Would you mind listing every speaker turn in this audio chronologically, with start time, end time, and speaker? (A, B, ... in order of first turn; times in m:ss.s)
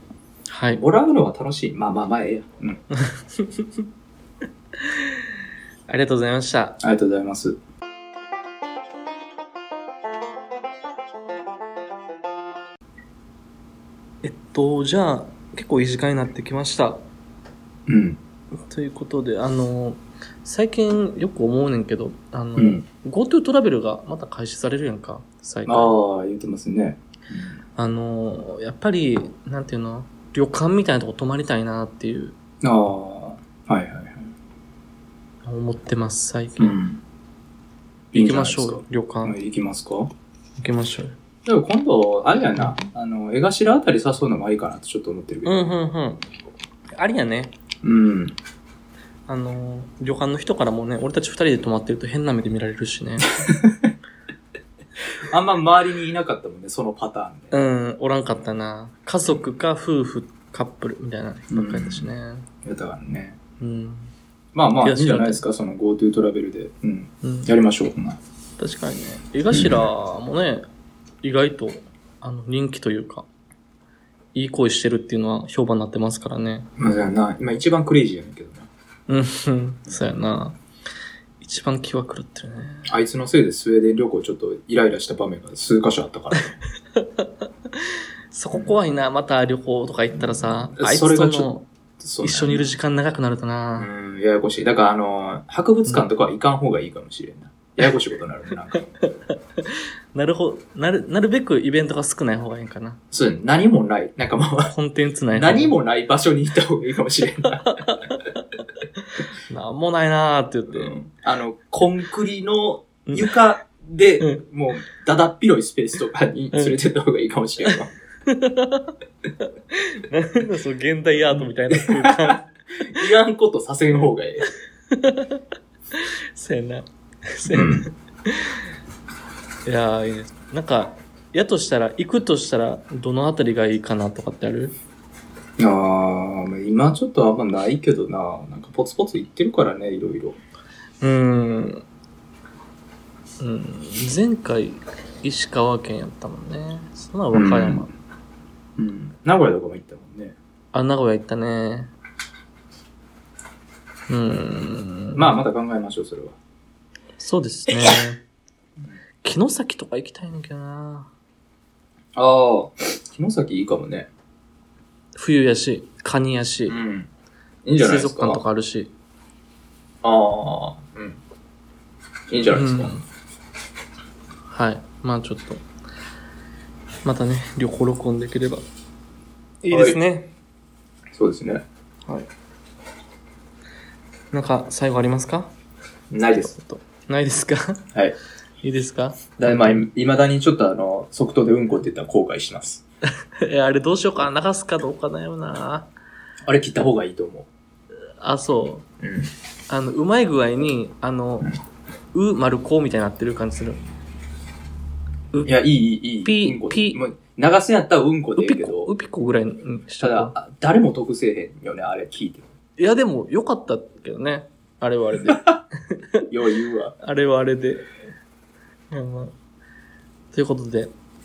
0:00.5-0:00.8 A
0:00.8-0:02.8 B
0:02.9-0:03.8 A
0:04.8-0:05.2 A
0:05.9-0:06.8 A
0:06.8-0:07.6 B
0:14.2-0:17.0 A
0:17.9-0:18.2 B
0:18.7-0:25.9 A
0:22.6-0:22.8 B
0:25.7-0:27.6 B
0:27.8-0:32.4 A
0:32.6-0:34.3 B
0:35.4-0:36.8 A
0:36.6-0:37.0 B
0:38.1-0:39.4 A
0:38.1-0:40.1 B
0:40.6-0:41.2 A
0:41.4-0:45.5 B
0:45.4-0:46.2 A
0:47.0-0:47.6 A
0:47.8-0:48.4 B
0:49.3-0:53.3 A
0:53.4-0:53.9 B
0:55.3-0:57.6 B
0:57.5-1:02.5 A
1:01.5-1:02.1 B
1:02.6-1:03.4 B
1:03.6-1:04.1 A
1:04.5-1:08.2 B
1:04.8-1:05.4 A
1:07.2-1:07.5 A
1:08.6-1:10.6 A
1:09.5-1:09.9 B
1:11.2-1:13.3 A
1:14.4-1:16.7 A
1:16.8-1:18.7 B
1:19.1-1:20.6 A
1:21.4-1:22.9 A
1:22.9-1:26.6 B
1:27.0-1:27.3 A
1:28.3-1:31.7 A
1:30.1-1:32.7 B
1:32.2-1:33.9 A
1:33.8-1:38.8 B
1:39.0-1:43.0 A
1:43.1-1:44.7 B
1:44.7-1:45.8 A
1:45.3-1:47.8 B
1:47.5-1:48.4 A
1:49.0-1:50.9 A
1:50.7-1:57.9 B
1:58.3-2:02.4 A
2:01.3-2:04.5 B
2:04.9-2:05.4 A
2:05.9-2:08.6 A
2:07.5-2:07.9 B
2:09.7-2:14.8 A
2:15.6-2:20.4 B
2:21.0-2:21.8 A
2:23.4-2:27.9 A
2:27.3-2:27.9 B
2:28.8-2:30.4 B
2:30.7-2:31.9 A
2:34.1-2:35.4 A
2:35.2-2:36.4 B
2:37.2-2:38.2 A
2:39.2-2:41.1 A
2:42.2-2:44.1 B
2:45.2-2:46.8 A
2:46.7-2:47.1 B
2:47.6-2:48.4 B
2:47.8-2:48.9 A
2:50.0-2:51.2 B
2:52.3-2:52.9 B
2:52.5-2:53.0 A
2:54.5-2:55.6 A
2:57.0-2:58.6 A
2:59.6-3:00.4 A
2:59.7-3:00.0 B
3:01.1-3:01.6 B
3:04.3-3:05.5 A
3:06.1-3:06.5 B
3:06.3-3:07.9 A
3:08.6-3:09.9 A
3:09.4-3:12.8 B
3:13.4-3:15.9 A
3:16.4-3:17.5 B
3:18.2-3:18.9 A
3:19.0-3:19.3 B
3:19.7-3:21.5 A
3:22.1-3:23.8 A
3:25.4-3:28.9 B
3:26.2-3:27.0 A
3:28.4-3:30.4 A
3:30.0-3:32.5 B
3:32.8-3:36.3 A
3:35.3-3:35.6 B
3:36.3-3:37.0 B
3:37.0-3:37.9 A
3:38.9-3:39.3 A
3:40.3-3:40.9 A